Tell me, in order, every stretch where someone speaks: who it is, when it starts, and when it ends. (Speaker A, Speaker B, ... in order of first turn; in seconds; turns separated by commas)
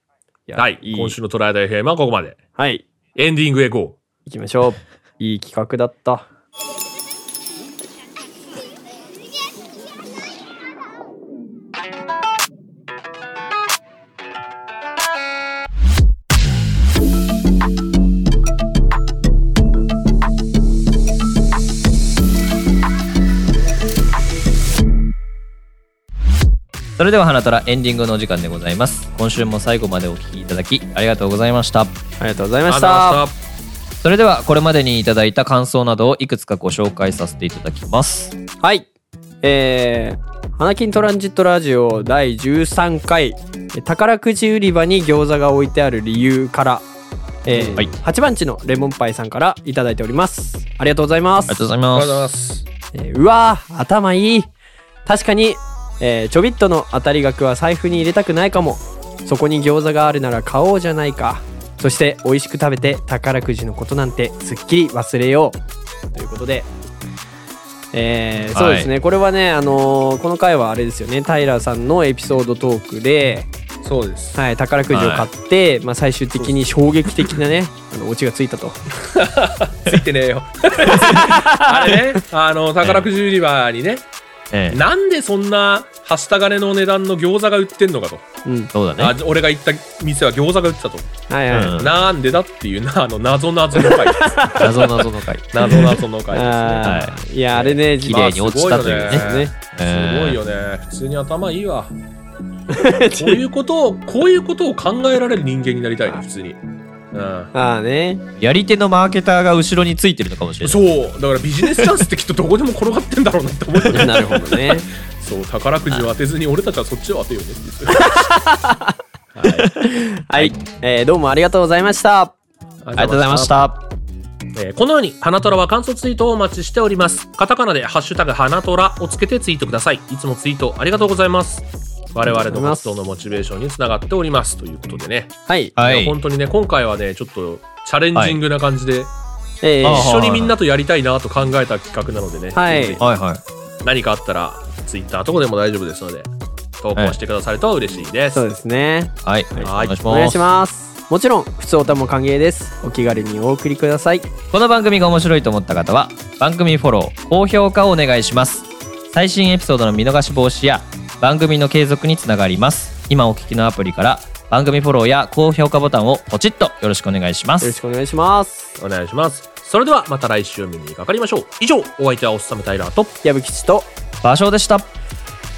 Speaker A: 0.5-1.2, Speaker B: 0.6-2.4, Speaker A: 2.6-2.9, Speaker B: 3.2-4.0, Speaker A: 4.3-6.3, Speaker C: 27.0-32.0, Speaker A: 32.2-33.2, Speaker B: 32.7-33.3, Speaker C: 34.0-38.4, Speaker A: 38.6-38.9, Speaker A: 39.4-46.9, Speaker A: 47.5-51.6, Speaker C: 47.5-47.9, Speaker C: 51.5-52.3, Speaker B: 51.9-52.6, Speaker A: 52.9-54.5, Speaker A: 55.1-65.6, Speaker A: 66.1-66.7, Speaker A: 67.9-73.5, Speaker C: 68.5-68.9, Speaker B: 73.8-74.4, Speaker A: 74.4-78.8, Speaker C: 74.9-75.3, Speaker B: 79.1-84.0, Speaker A: 80.9-82.0, Speaker C: 82.8-83.1, Speaker C: 84.5-84.8, Speaker B: 84.7-88.3, Speaker A: 88.5-88.7, Speaker C: 88.7-89.2, Speaker B: 89.0-91.2, Speaker A: 91.3-91.8, Speaker C: 91.5-92.0, Speaker B: 91.8-94.5, Speaker A: 93.8-95.0, Speaker C: 94.6-95.9, Speaker B: 95.5-97.0, Speaker A: 95.6-98.3, Speaker C: 96.8-97.2, Speaker B: 97.5-101.9, Speaker C: 98.0-100.4, Speaker A: 99.1-99.5, Speaker A: 102.7-103.4, Speaker B: 103.2-106.6, Speaker B: 107.1-107.5, Speaker A: 107.5-108.2, Speaker C: 108.4-110.8, Speaker B: 110.6-118.3, Speaker A: 113.9-114.9, Speaker A: 118.0-119.0, Speaker B: 119.3-119.7, Speaker A: 119.8-122.3, Speaker B: 122.8-123.6, Speaker C: 123.0-123.8, Speaker B: 124.6-139.1, Speaker A: 132.3-133.0, Speaker A: 135.5-135.7, Speaker C: 135.8-136.2, Speaker A: 139.6-140.1, Speaker B: 139.8-143.1, Speaker C: 139.8-140.6, Speaker A: 142.6-143.0, Speaker C: 143.0-143.4, Speaker B: 143.8-146.3, Speaker B: 146.8-148.4, Speaker A: 148.3-154.3, Speaker C: 149.2-150.4, Speaker B: 149.6-150.0, Speaker C: 154.5-167.8, Speaker A: 167.6-168.7, Speaker B: 168.8-173.2, Speaker A: 173.2-173.9, Speaker C: 174.2-174.9